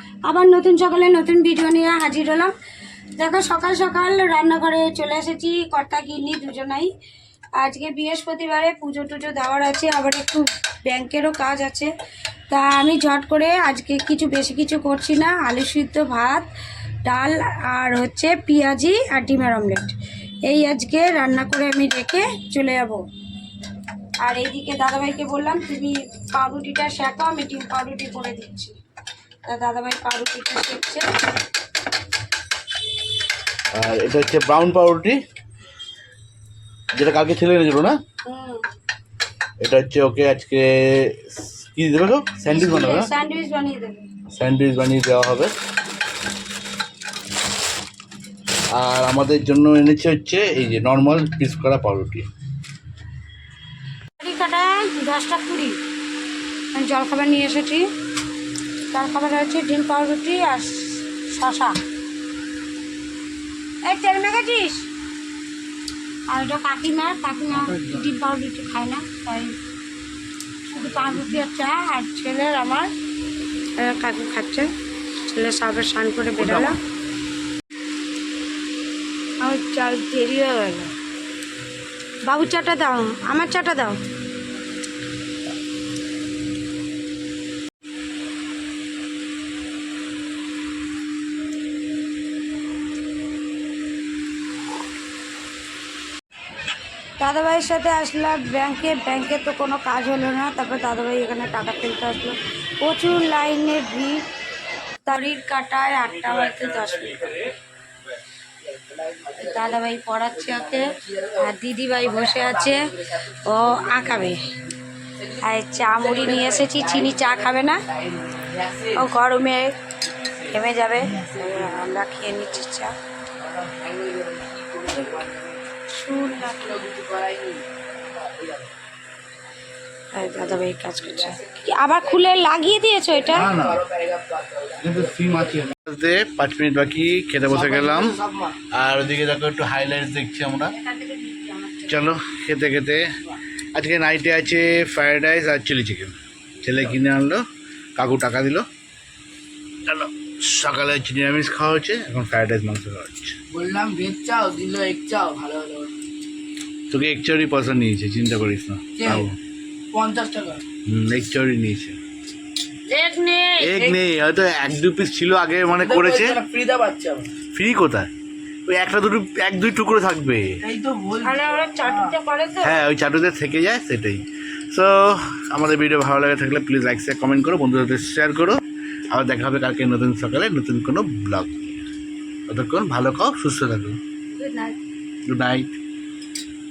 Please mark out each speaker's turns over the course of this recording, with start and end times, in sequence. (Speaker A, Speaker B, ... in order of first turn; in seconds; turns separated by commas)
Speaker A: 0.2-2.5, Speaker A: 3.2-6.9, Speaker A: 7.6-11.9, Speaker A: 12.5-16.5, Speaker A: 17.0-23.0, Speaker A: 24.2-28.8, Speaker A: 29.5-31.1, Speaker B: 33.7-35.2, Speaker B: 36.9-38.0, Speaker A: 38.2-38.7, Speaker B: 39.6-43.1, Speaker A: 42.5-44.1, Speaker B: 44.3-45.5, Speaker B: 48.7-52.3, Speaker A: 54.2-55.8, Speaker A: 56.7-57.9, Speaker A: 58.9-61.8, Speaker A: 63.8-64.9, Speaker A: 66.3-69.6, Speaker B: 67.6-68.0, Speaker A: 70.7-72.9, Speaker A: 73.8-74.7, Speaker A: 75.2-76.8, Speaker B: 76.4-76.8, Speaker A: 79.4-80.9, Speaker A: 82.3-84.0, Speaker A: 97.2-104.2, Speaker A: 105.0-107.5, Speaker C: 108.6-109.8, Speaker A: 109.4-114.5, Speaker C: 110.3-111.5, Speaker C: 112.0-119.1, Speaker A: 115.4-117.8, Speaker A: 119.0-119.8, Speaker C: 120.1-122.5, Speaker A: 120.5-122.9, Speaker C: 123.4-125.6, Speaker A: 125.9-126.8, Speaker C: 126.4-128.7, Speaker A: 130.1-133.5, Speaker C: 131.1-131.7, Speaker C: 133.2-135.6, Speaker B: 133.3-133.8, Speaker B: 134.8-138.2, Speaker C: 137.5-138.6, Speaker B: 138.7-140.7, Speaker A: 140.7-142.0, Speaker B: 141.9-143.2, Speaker B: 143.7-147.4, Speaker B: 148.0-148.7, Speaker B: 149.8-153.4, Speaker C: 153.5-155.9, Speaker B: 156.9-159.3, Speaker C: 159.0-159.3, Speaker C: 159.9-160.6, Speaker B: 160.9-162.0, Speaker A: 162.9-163.7, Speaker B: 163.6-166.4, Speaker C: 165.8-167.3, Speaker B: 167.5-168.1, Speaker B: 168.7-170.6, Speaker C: 170.6-172.1, Speaker A: 171.2-172.8, Speaker B: 172.6-181.8, Speaker B: 182.5-184.0, Speaker A: 184.3-184.8, Speaker B: 185.3-185.7